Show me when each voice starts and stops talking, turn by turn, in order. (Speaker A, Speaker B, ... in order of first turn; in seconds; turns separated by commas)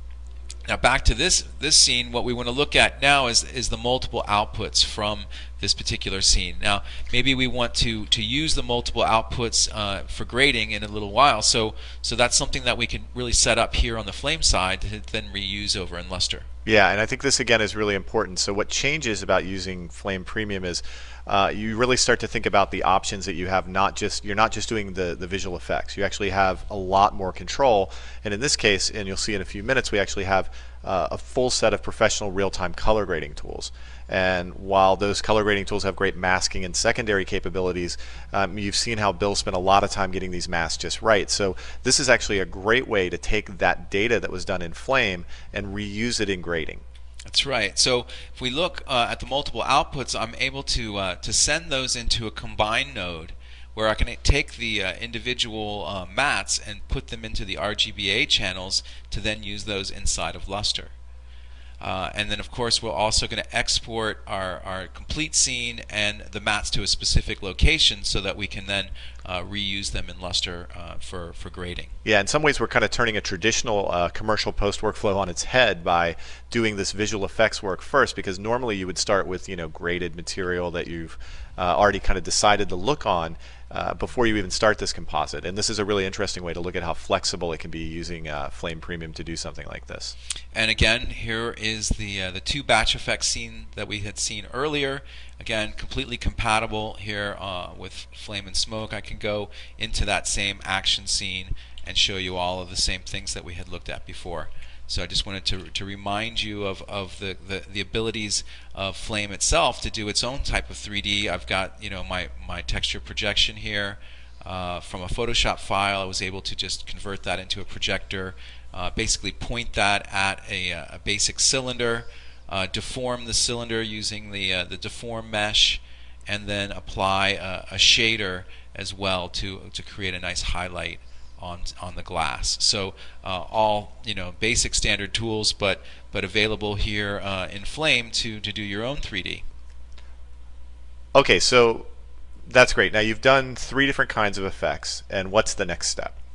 Speaker A: 0.7-16.4, Speaker B: 16.6-46.8, Speaker A: 47.3-60.9, Speaker A: 61.8-71.9, Speaker B: 72.0-90.1, Speaker A: 90.5-139.4, Speaker B: 141.1-141.9, Speaker B: 142.5-146.1